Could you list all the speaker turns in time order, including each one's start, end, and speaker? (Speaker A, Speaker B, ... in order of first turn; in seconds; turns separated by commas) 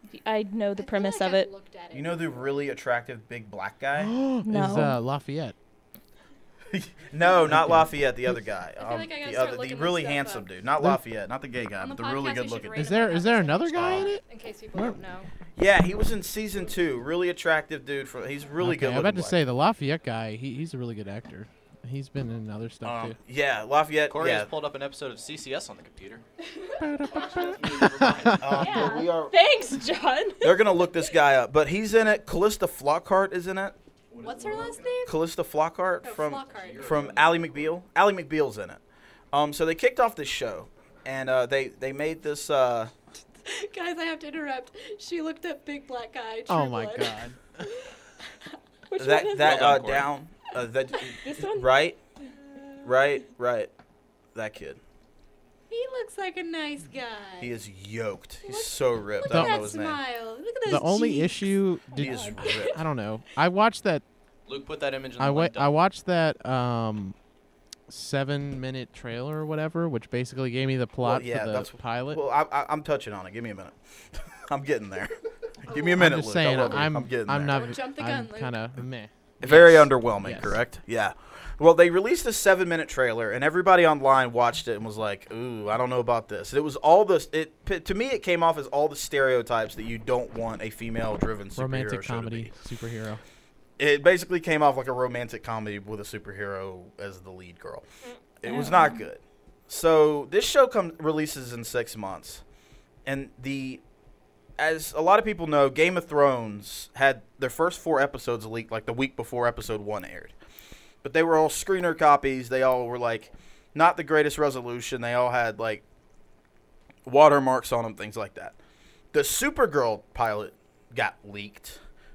Speaker A: 0.2-1.5, Speaker B: 0.8-2.5, Speaker C: 1.9-4.1, Speaker D: 4.0-5.5, Speaker A: 4.4-5.0, Speaker C: 6.7-12.9, Speaker D: 7.5-7.9, Speaker B: 8.8-10.5, Speaker B: 11.8-15.3, Speaker D: 12.8-14.2, Speaker C: 13.7-14.1, Speaker D: 14.7-15.0, Speaker C: 15.6-19.4, Speaker D: 18.6-23.1, Speaker C: 22.8-24.5, Speaker E: 24.1-26.2, Speaker B: 26.6-27.5, Speaker D: 26.8-28.5, Speaker E: 27.1-28.9, Speaker C: 28.4-29.4, Speaker A: 28.5-30.6, Speaker B: 28.6-28.9, Speaker C: 30.4-33.8, Speaker E: 34.1-34.9, Speaker B: 34.2-35.1, Speaker C: 35.0-38.8, Speaker B: 36.0-36.9, Speaker E: 36.5-37.7, Speaker C: 39.3-42.9, Speaker B: 43.4-47.2, Speaker D: 46.5-47.7, Speaker A: 48.9-49.6, Speaker C: 49.0-52.0, Speaker E: 49.4-50.1, Speaker A: 51.2-51.7, Speaker C: 52.8-53.7, Speaker C: 54.3-54.8, Speaker B: 55.7-57.5, Speaker C: 57.4-60.0, Speaker B: 58.5-62.7, Speaker D: 59.3-59.6, Speaker D: 60.6-64.0, Speaker C: 61.9-62.8, Speaker A: 62.0-62.4, Speaker E: 64.5-65.7, Speaker D: 65.2-67.1, Speaker D: 67.9-72.2, Speaker C: 71.0-77.7, Speaker B: 75.7-76.0, Speaker D: 76.0-80.6, Speaker B: 77.5-78.6, Speaker C: 79.4-92.5, Speaker D: 91.5-93.2, Speaker C: 93.8-97.8, Speaker C: 98.4-102.4, Speaker A: 98.5-98.9, Speaker C: 103.0-103.8, Speaker C: 104.6-110.3, Speaker C: 111.0-115.8, Speaker C: 117.0-118.5, Speaker C: 119.1-121.8